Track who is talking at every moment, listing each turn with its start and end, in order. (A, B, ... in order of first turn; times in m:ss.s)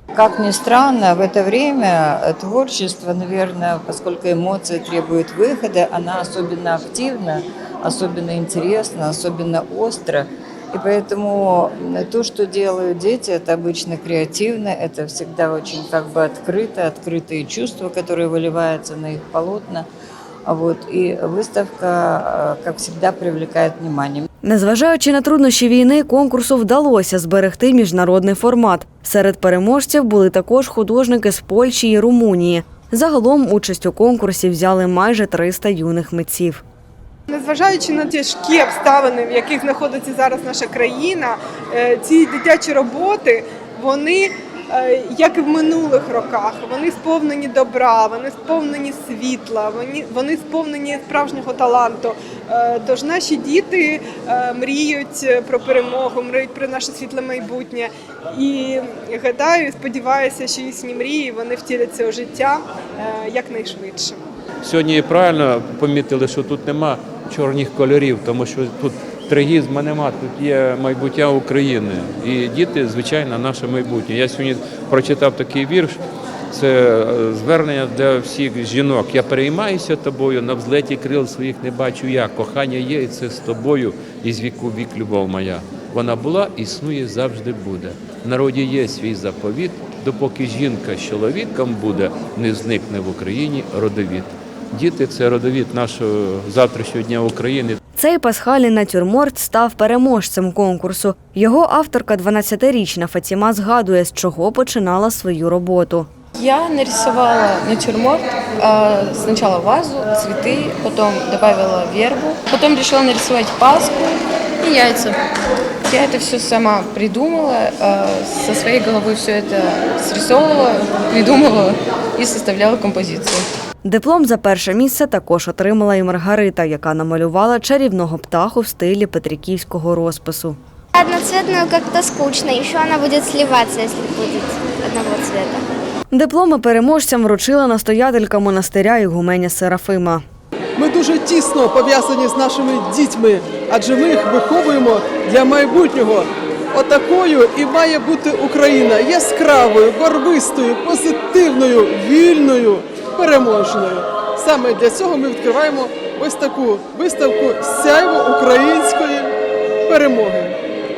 0:00.1-0:19.9 A
0:20.4-0:24.2 A
0:24.4-0:36.6 B
0:37.3-1:04.2 C
1:04.6-1:16.0 D
1:16.5-1:37.8 D
1:37.9-1:46.1 B
1:46.3-1:55.2 E
1:55.8-2:03.5 E
2:03.8-2:10.6 B
2:10.9-2:15.6 F
2:16.1-2:20.2 B
2:20.8-2:39.3 G
2:39.8-2:40.6 G